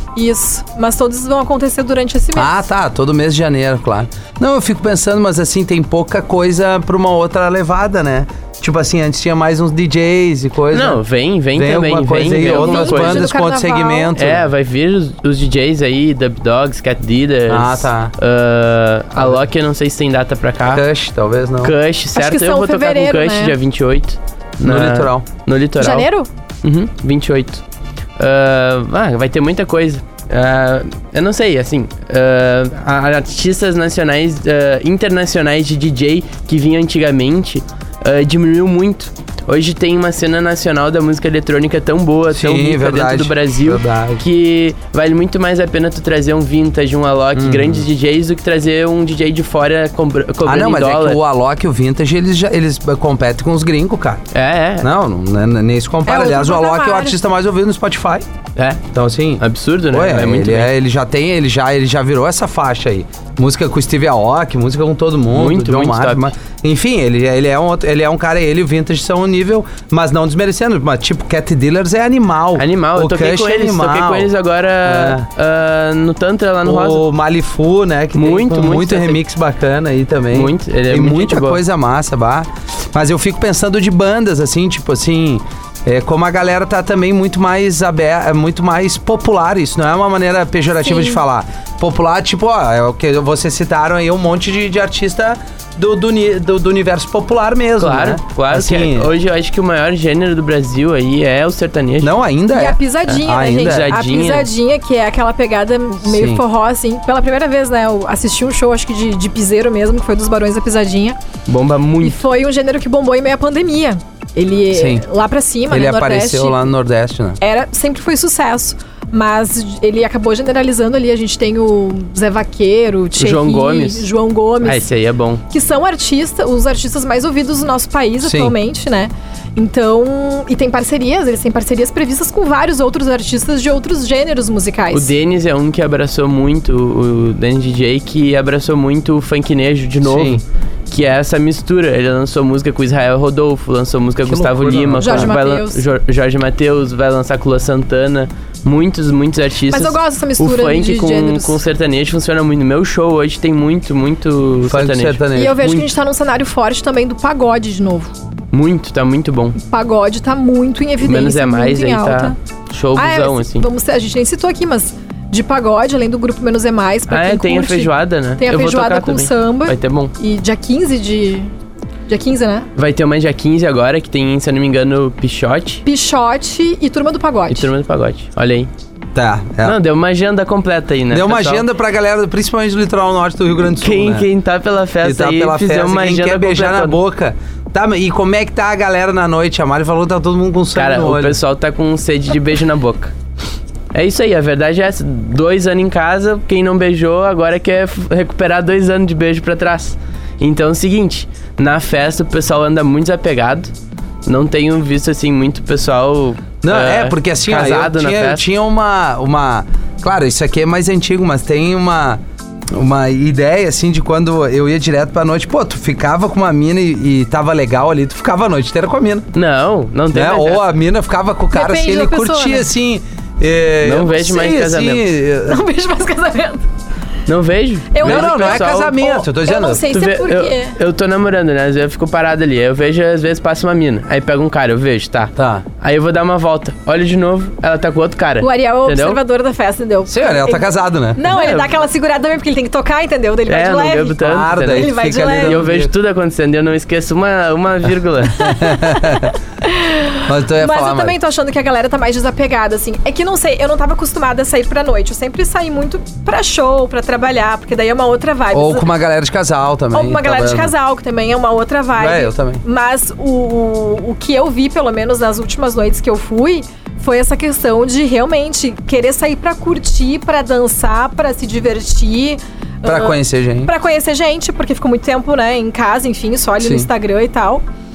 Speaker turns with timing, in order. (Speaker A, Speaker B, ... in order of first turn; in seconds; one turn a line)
Speaker A: 0.1-2.7
Speaker B: 2.3-11.0
Speaker C: 10.7-13.3
Speaker B: 11.5-14.4
Speaker A: 12.4-14.1
Speaker C: 14.1-20.8
Speaker B: 17.5-18.1
Speaker B: 19.1-19.4
Speaker B: 20.7-21.7
Speaker C: 21.6-26.1
Speaker A: 22.1-23.6
Speaker B: 24.6-25.2
Speaker A: 25.8-26.3
Speaker C: 26.6-27.6
Speaker C: 28.2-51.2
Speaker B: 42.3-44.2
Speaker B: 47.3-47.9
Speaker B: 50.4-54.2
Speaker C: 54.3-54.9
Speaker B: 54.8-58.2
Speaker A: 56.0-57.2
Speaker C: 58.5-58.8
Speaker B: 58.9-74.3
Speaker C: 59.4-60.7
Speaker C: 65.3-66.3
Speaker C: 72.6-77.0
Speaker B: 74.8-75.3
Speaker B: 76.6-99.1
Speaker C: 78.1-79.2
Speaker C: 80.3-81.6
Speaker A: 90.8-91.2
Speaker C: 97.8-102.2
Speaker B: 102.0-103.9
Speaker A: 102.5-111.2
Speaker C: 103.5-104.5
Speaker B: 106.0-106.4
Speaker C: 111.5-112.2
Speaker A: 112.0-116.7
Speaker B: 114.7-115.0
Speaker B: 115.7-117.4
Speaker A: 117.4-124.8
Speaker C: 123.2-124.1
Speaker C: 124.6-125.4
Speaker A: 125.5-135.1
Speaker B: 128.2-128.5
Speaker C: 134.9-155.2
Speaker B: 140.0-140.4
Speaker B: 144.3-145.3
Speaker A: 145.0-145.8
Speaker A: 149.7-151.6
Speaker B: 154.7-155.8
Speaker A: 155.3-158.1
Speaker C: 158.5-159.6
Speaker A: 159.6-162.4
Speaker C: 161.0-163.6
Speaker A: 162.9-171.5
Speaker C: 167.1-170.1
Speaker A: 172.1-172.7
Speaker C: 172.8-175.8
Speaker A: 175.8-177.7
Speaker C: 177.5-178.7
Speaker B: 179.1-179.8
Speaker C: 179.6-181.6
Speaker B: 181.1-184.3
Speaker C: 183.7-187.0
Speaker B: 185.0-191.4
Speaker C: 190.7-193.1
Speaker C: 193.9-203.7
Speaker C: 204.2-208.4
Speaker B: 206.6-212.2
Speaker B: 212.7-219.3
Speaker C: 219.3-220.7
Speaker B: 220.1-225.6
Speaker A: 221.5-222.7
Speaker C: 223.8-225.0
Speaker A: 225.4-226.6
Speaker C: 227.3-228.9
Speaker A: 227.9-230.8
Speaker B: 228.0-229.8
Speaker C: 229.9-239.2
Speaker B: 235.3-235.7
Speaker A: 238.4-245.6
Speaker B: 240.1-241.2
Speaker C: 241.3-241.8
Speaker C: 243.5-248.6
Speaker B: 244.2-245.9
Speaker B: 248.4-249.3
Speaker A: 248.5-258.9
Speaker B: 250.2-251.1
Speaker B: 258.5-260.7
Speaker A: 259.9-277.6
Speaker B: 262.0-262.6
Speaker B: 272.8-273.7
Speaker B: 276.6-276.9